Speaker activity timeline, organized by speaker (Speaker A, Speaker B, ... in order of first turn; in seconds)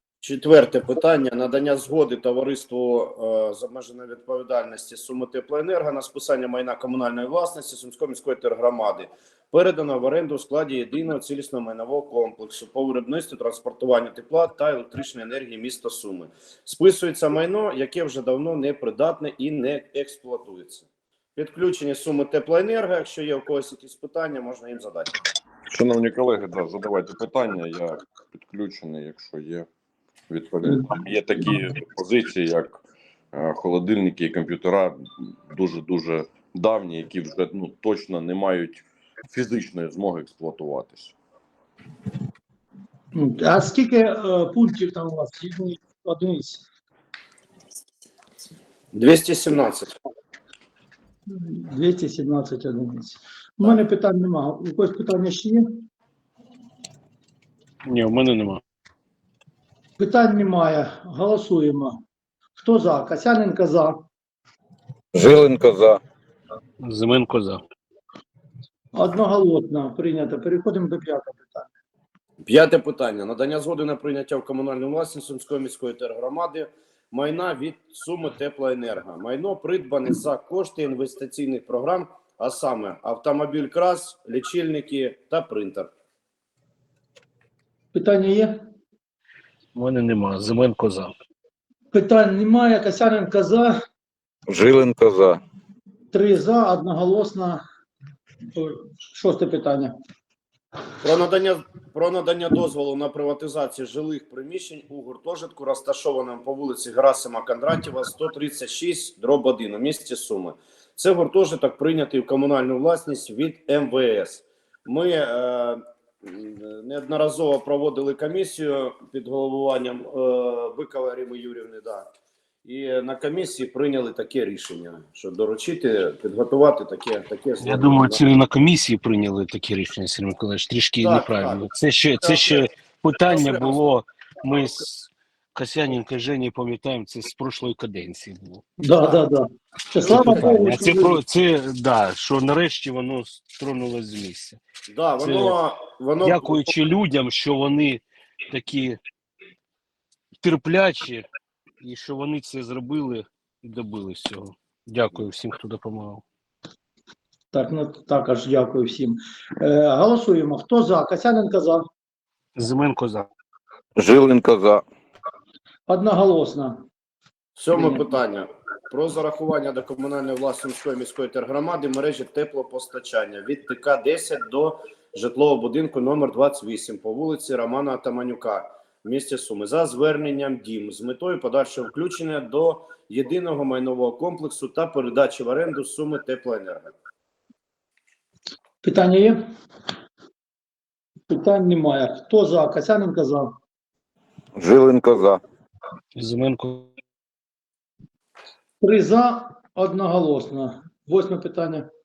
Speaker A: 0.2-25.1, 48.9-49.9, 72.5-85.9, 101.0-122.1, 122.7-128.2, 131.0-131.6, 132.2-132.7, 133.2-133.9, 139.0-139.3, 140.0-140.6, 144.9-146.7, 167.6-186.9
Speaker B: 25.7-29.7, 30.3-32.8, 33.3-41.1
Speaker C: 43.1-46.6, 51.3-55.8, 60.0-62.0, 62.6-64.0, 68.9-71.7, 87.9-88.6, 91.9-93.8, 96.1-97.6, 98.5-100.0, 138.8-141.2, 157.5-161.9, 165.9-166.8, 167.7-168.1, 188.8-189.5, 191.3-193.6, 198.8-201.9
Speaker D: 57.9-58.6, 66.8-67.6, 89.8-91.2, 127.6-138.6, 140.0-144.6, 145.2-145.6, 146.2-149.0, 150.4-151.2, 151.8-156.2, 162.6-163.3, 196.2-196.9
Speaker E: 65.1-66.0, 94.5-95.4, 164.0-164.8, 194.6-195.4